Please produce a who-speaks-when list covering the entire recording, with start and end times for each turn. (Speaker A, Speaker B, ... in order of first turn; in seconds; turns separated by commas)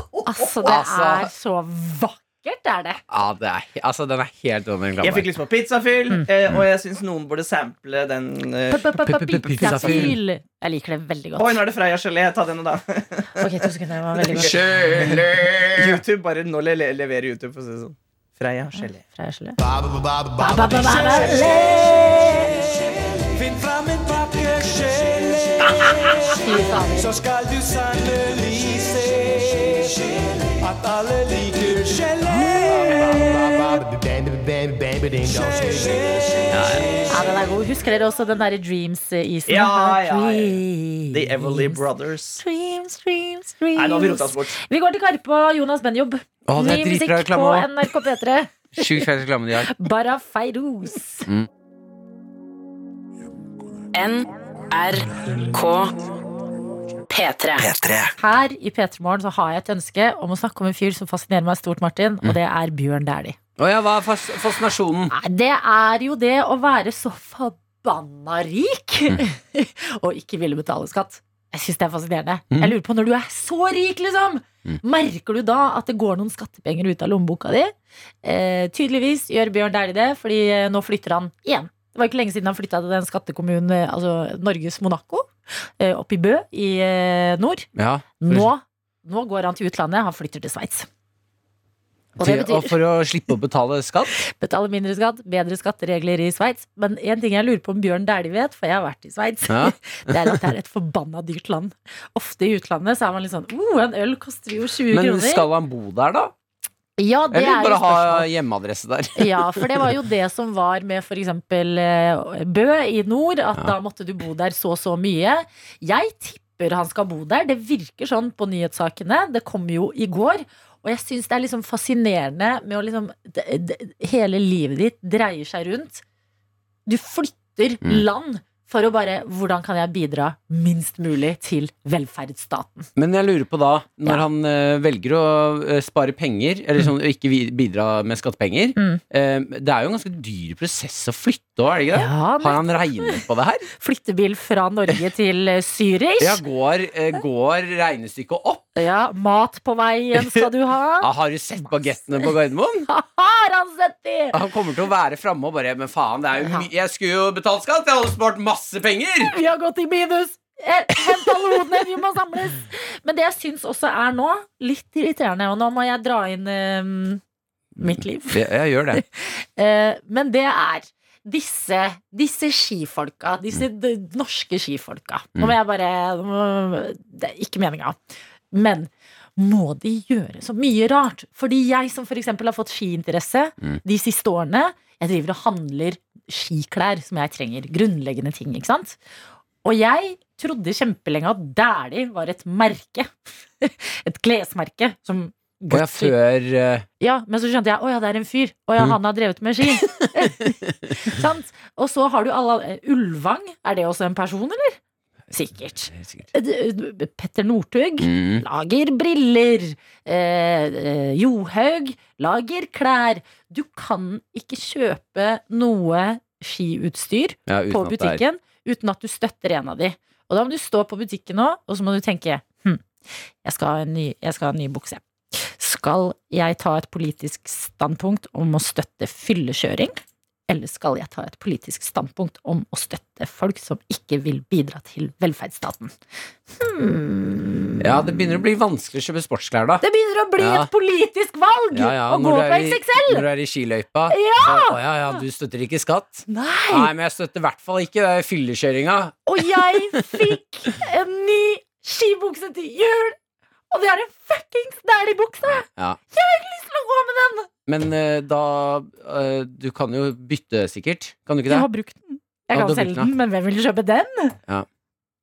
Speaker A: 0.2-3.0, Speaker B: 0.6-1.3, Speaker B: 3.1-5.3, Speaker C: 5.0-8.9, Speaker A: 8.7-11.6, Speaker B: 9.0-10.2, Speaker C: 9.6-10.1, Speaker C: 11.4-13.5, Speaker A: 13.4-14.6, Speaker C: 14.2-19.0, Speaker B: 14.3-16.0, Speaker A: 18.7-19.6, Speaker D: 19.6-37.1, Speaker A: 20.4-22.5, Speaker A: 26.3-27.1, Speaker C: 36.5-36.8, Speaker A: 37.1-41.8, Speaker C: 39.5-40.6, Speaker C: 41.1-42.4, Speaker A: 42.4-49.1, Speaker C: 43.7-44.5, Speaker B: 46.5-47.7, Speaker B: 48.7-49.7, Speaker A: 49.6-51.3, Speaker E: 53.9-55.9, Speaker E: 57.1-58.1, Speaker A: 58.2-63.4, Speaker B: 63.6-65.1, Speaker A: 65.1-77.7, Speaker A: 78.2-87.7, Speaker B: 87.8-88.5, Speaker A: 88.2-90.9, Speaker B: 92.2-94.1, Speaker A: 92.2-92.8, Speaker A: 94.2-105.5, Speaker B: 99.5-100.4, Speaker B: 104.9-106.3, Speaker A: 107.0-108.3, Speaker B: 107.3-109.9, Speaker A: 109.2-126.0, Speaker A: 126.9-132.9, Speaker B: 132.9-143.7, Speaker A: 141.9-143.2, Speaker A: 143.8-146.4, Speaker B: 146.2-148.7, Speaker A: 148.8-151.1, Speaker B: 151.0-152.9, Speaker A: 152.9-154.4, Speaker B: 154.3-159.3, Speaker A: 156.4-156.7, Speaker A: 159.2-167.2, Speaker B: 167.8-169.0, Speaker A: 167.8-168.4, Speaker A: 168.9-178.0, Speaker A: 178.5-189.0, Speaker A: 189.6-196.1, Speaker B: 195.7-196.8, Speaker A: 197.0-204.8, Speaker B: 199.8-200.5, Speaker A: 205.3-222.8, Speaker B: 205.9-206.3, Speaker B: 208.0-208.4, Speaker B: 217.5-218.2, Speaker A: 223.4-229.9, Speaker A: 230.5-235.9, Speaker A: 236.5-238.2, Speaker B: 237.8-239.8, Speaker A: 239.8-243.2, Speaker B: 240.4-240.7, Speaker B: 241.7-250.3, Speaker A: 244.1-244.8, Speaker A: 246.3-246.9, Speaker A: 249.2-253.2, Speaker A: 253.7-257.5, Speaker B: 255.7-256.0, Speaker B: 257.6-261.7, Speaker A: 261.5-264.4, Speaker B: 262.5-263.1